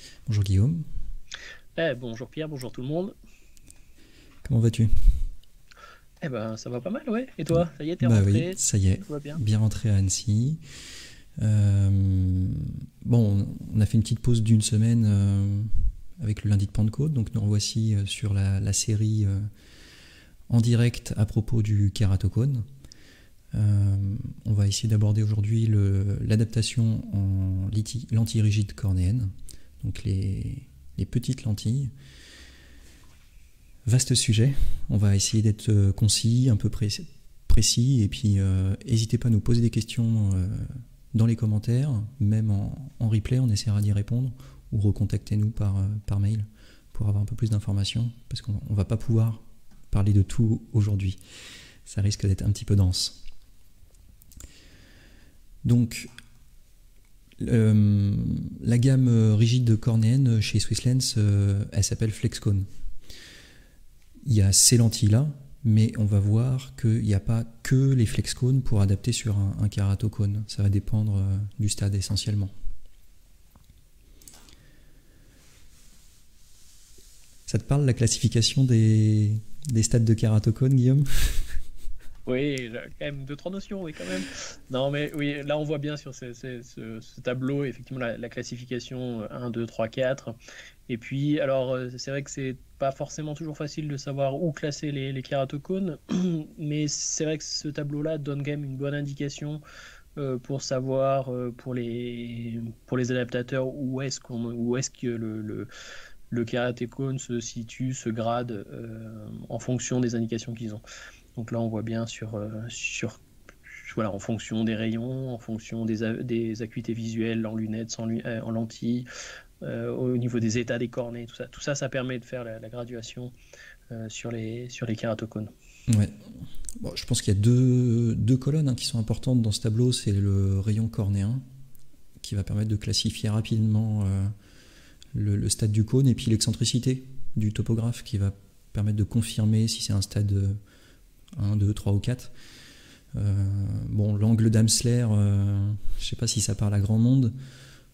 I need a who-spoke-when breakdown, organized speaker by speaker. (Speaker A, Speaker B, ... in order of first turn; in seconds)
Speaker A: 0.3-0.9, 4.5-5.3, 8.0-10.6, 11.4-19.5, 20.5-22.6, 23.5-31.9, 33.9-51.2, 51.9-53.2, 55.6-56.1, 57.4-62.7, 64.2-72.5, 77.5-81.6, 125.9-126.3, 126.8-131.4, 132.2-134.3, 135.1-140.6, 141.3-142.3, 143.1-147.3
Speaker B: 1.8-3.1, 6.2-9.4, 82.3-90.4, 90.9-99.6, 100.2-105.7, 106.3-110.8, 111.4-113.2, 113.8-119.1, 119.6-123.3, 123.9-125.5